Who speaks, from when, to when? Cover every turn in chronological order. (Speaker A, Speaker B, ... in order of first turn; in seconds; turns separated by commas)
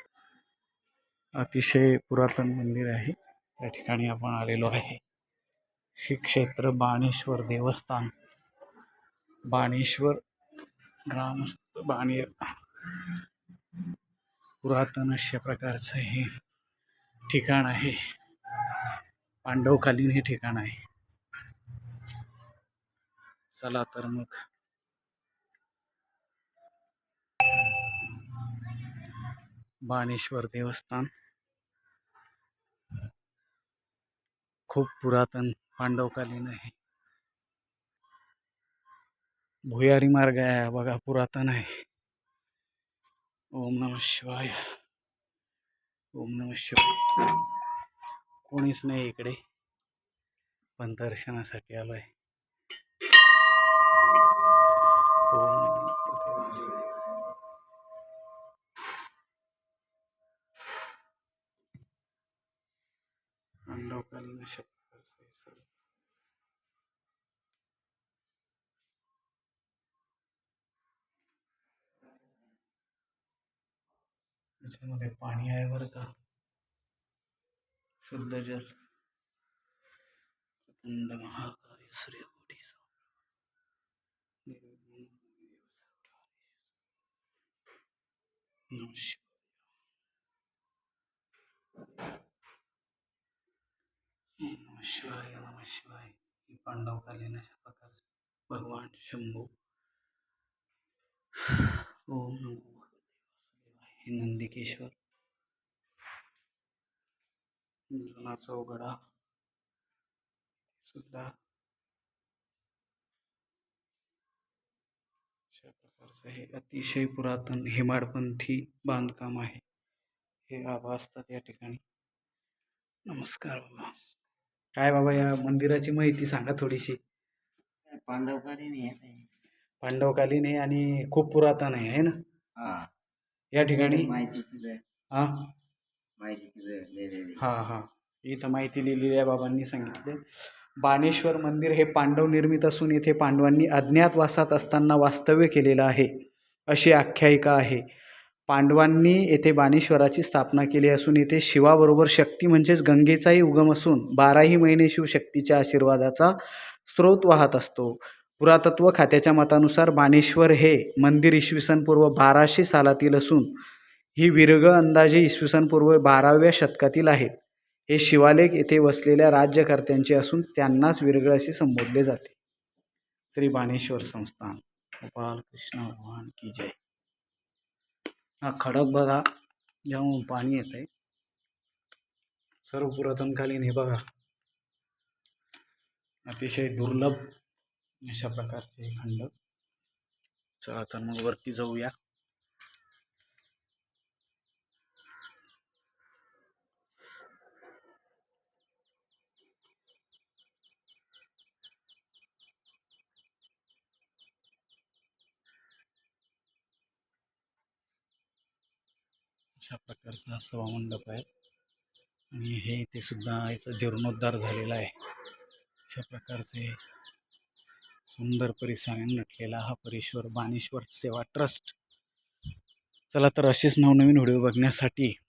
Speaker A: 1.4-5.0, Speaker A: 6.0-8.1, Speaker A: 9.5-10.2, Speaker A: 11.1-13.2, Speaker A: 14.6-16.3, Speaker A: 17.3-18.0, Speaker A: 19.4-20.8, Speaker A: 23.5-24.4, Speaker A: 28.0-29.2, Speaker A: 29.9-31.1, Speaker A: 34.7-36.8, Speaker A: 39.7-41.7, Speaker A: 43.5-44.6, Speaker A: 46.2-47.4, Speaker A: 48.5-49.4, Speaker A: 50.8-52.1, Speaker A: 55.3-56.9, Speaker A: 63.7-65.7, Speaker A: 74.6-76.1, Speaker A: 78.0-78.7, Speaker A: 80.7-82.9, Speaker A: 84.5-86.6, Speaker A: 88.7-89.5, Speaker A: 94.4-99.5, Speaker A: 101.5-104.9, Speaker A: 107.9-108.9, Speaker A: 110.8-111.3, Speaker A: 115.5-119.6, Speaker A: 120.5-121.8, Speaker A: 123.1-123.9, Speaker A: 124.8-127.0, Speaker B: 127.9-129.3, Speaker A: 129.8-132.2, Speaker B: 132.6-132.9, Speaker A: 133.5-134.1, Speaker B: 133.9-134.8, Speaker A: 135.1-135.5, Speaker B: 136.2-137.4, Speaker A: 137.4-140.2, Speaker A: 140.8-146.1, Speaker A: 146.7-147.8, Speaker A: 148.5-163.5, Speaker A: 164.2-167.4, Speaker A: 167.9-172.4, Speaker A: 173.3-176.8, Speaker A: 178.4-179.2, Speaker A: 179.9-180.9, Speaker A: 182.7-184.0, Speaker A: 186.2-187.2, Speaker A: 188.1-189.3, Speaker A: 190.6-191.9, Speaker A: 209.6-211.2, Speaker A: 212.3-214.9, Speaker A: 215.9-216.8, Speaker A: 218.1-221.8, Speaker A: 223.1-225.1